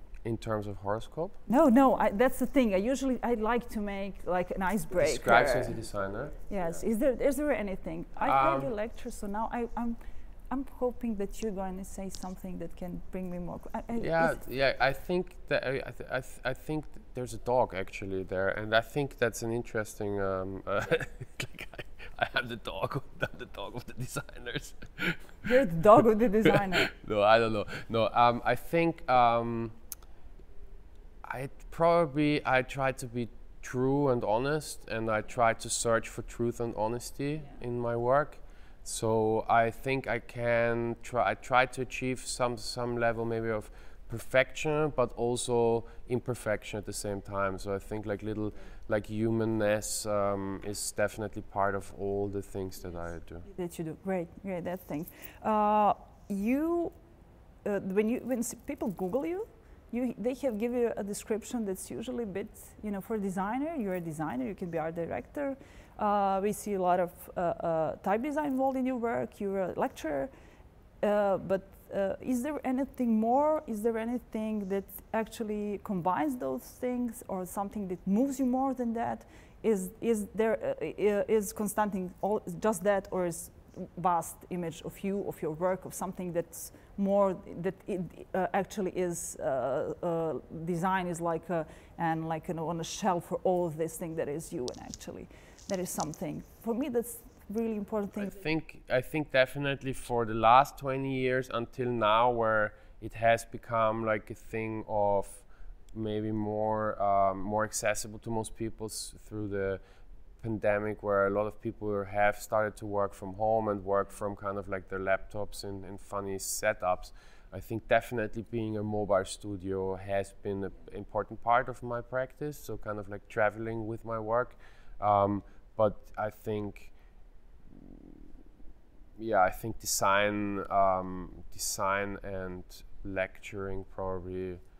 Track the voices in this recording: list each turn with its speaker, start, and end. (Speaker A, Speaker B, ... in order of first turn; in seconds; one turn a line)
Speaker A: 0.2-1.4
Speaker B: 1.5-5.8
Speaker A: 4.9-6.6
Speaker B: 6.5-10.0
Speaker A: 8.2-8.7
Speaker B: 10.5-14.4
Speaker A: 13.9-25.5
Speaker B: 25.4-26.9
Speaker A: 26.9-29.8
Speaker A: 31.2-53.5
Speaker B: 53.5-56.9
Speaker B: 57.6-70.3
Speaker B: 71.0-98.3
Speaker A: 98.1-109.8
Speaker A: 110.4-126.9
Speaker A: 127.7-128.2
Speaker A: 129.2-134.6